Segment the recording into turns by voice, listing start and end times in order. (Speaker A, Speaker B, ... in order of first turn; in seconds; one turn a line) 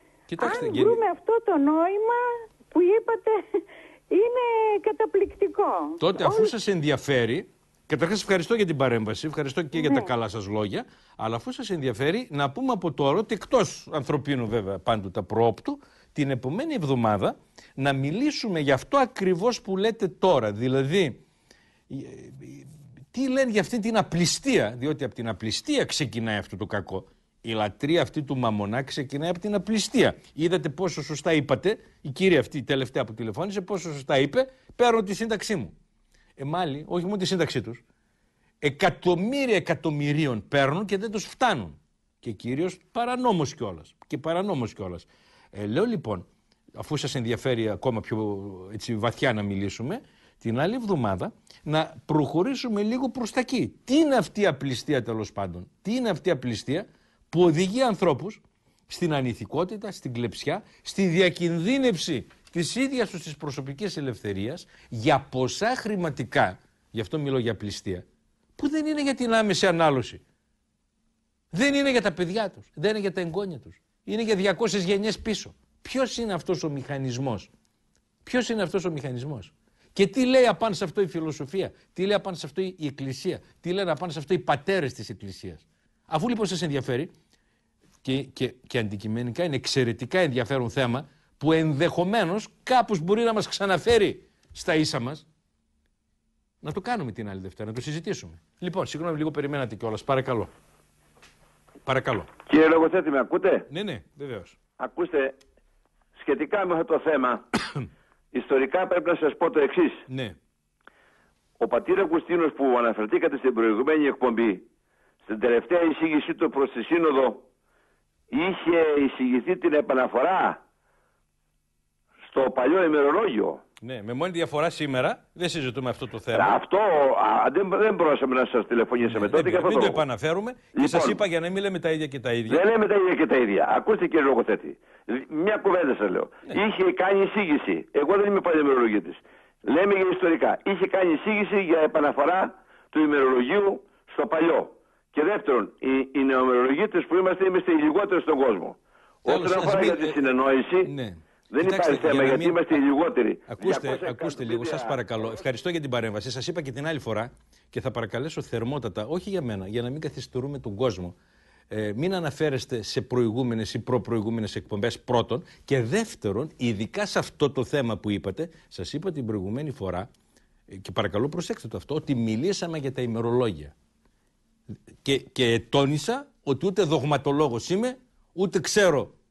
Speaker A: 0.3-1.0
Speaker B: 0.4-6.5
Speaker A: 6.0-21.2
Speaker B: 9.8-10.1
Speaker A: 21.9-35.7
Speaker A: 36.4-37.8
Speaker A: 38.6-68.0
Speaker A: 68.6-70.2
Speaker A: 71.5-77.5
Speaker A: 78.2-87.1
Speaker A: 88.0-95.3
Speaker A: 96.6-100.5
Speaker A: 101.9-102.3
Speaker C: 102.5-103.7
Speaker A: 103.7-104.6
Speaker C: 104.8-105.4
Speaker C: 106.2-107.4
Speaker C: 108.3-110.0
Speaker A: 110.1-110.4
Speaker C: 111.6-114.6
Speaker C: 115.3-117.4
Speaker C: 118.3-120.6
Speaker C: 122.3-123.6
Speaker A: 123.8-126.6
Speaker C: 126.3-130.1
Speaker A: 129.1-132.6
Speaker C: 130.8-131.2
Speaker C: 132.5-150.9
Speaker A: 149.3-150.3
Speaker A: 150.8-152.8
Speaker C: 151.5-155.0
Speaker A: 153.5-161.2
Speaker A: 161.7-170.1
Speaker A: 170.7-173.7
Speaker A: 175.0-179.1